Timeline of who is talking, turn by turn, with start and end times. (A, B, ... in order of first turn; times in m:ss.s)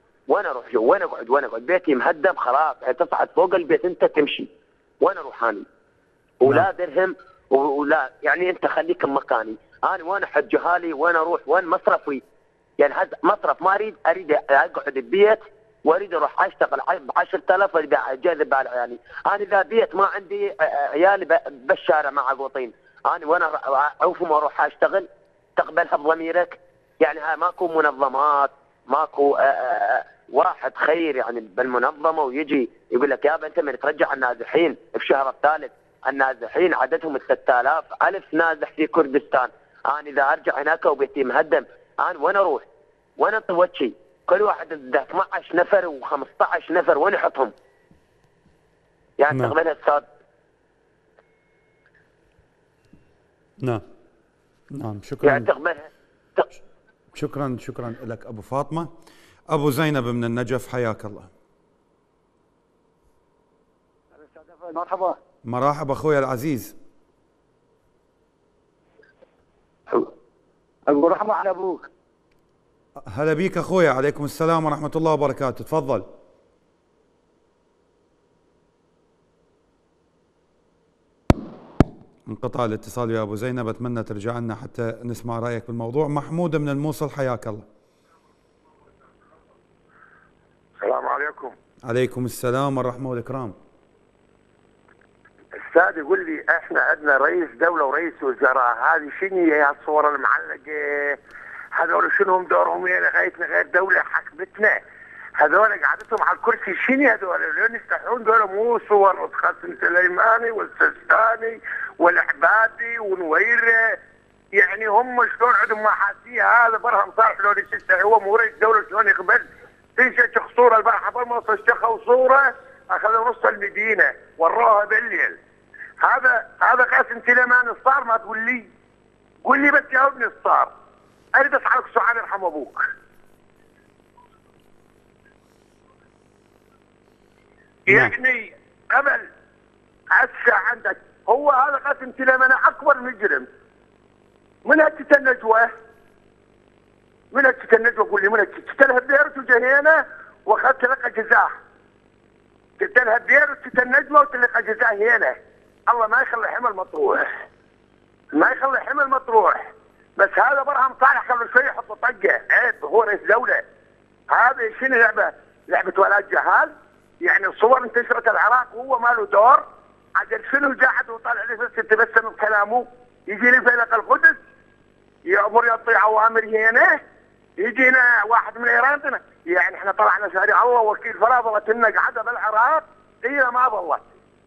0:00.3-0:04.5 A
0:05.0-0:05.6 A
0:06.4-0:12.2 A
0:12.8-0:42.6 A
0:43.2-0:47.5 A
0:49.2-0:50.0 A
0:54.7-0:55.5 B
0:55.2-0:56.5 A
0:57.1-0:58.9 B
0:59.5-1:01.3 B
1:04.2-1:05.2 C
1:05.4-1:06.7 B
1:10.9-1:11.9 C
1:13.1-1:16.1 B
1:22.3-1:27.6 B
1:30.8-1:31.5 D
1:31.8-1:33.5 B
1:35.5-1:41.2 D
1:41.7-1:44.8 D
1:45.4-1:54.0 D
1:54.5-1:59.4 D
2:00.0-2:05.4 D
2:06.0-2:08.7 D
2:09.4-2:10.7 D
2:11.3-2:12.9 D
2:17.9-2:19.2 D
2:17.9-2:18.1 B
2:20.1-2:23.4 D
2:24.6-2:25.7 D
2:27.3-2:31.5 D
2:32.8-2:35.3 D
2:35.9-2:37.3 D
2:38.3-2:43.6 D
2:44.3-2:49.6 D
2:50.2-2:54.4 D
2:55.3-2:57.0 D
2:57.6-3:04.0 D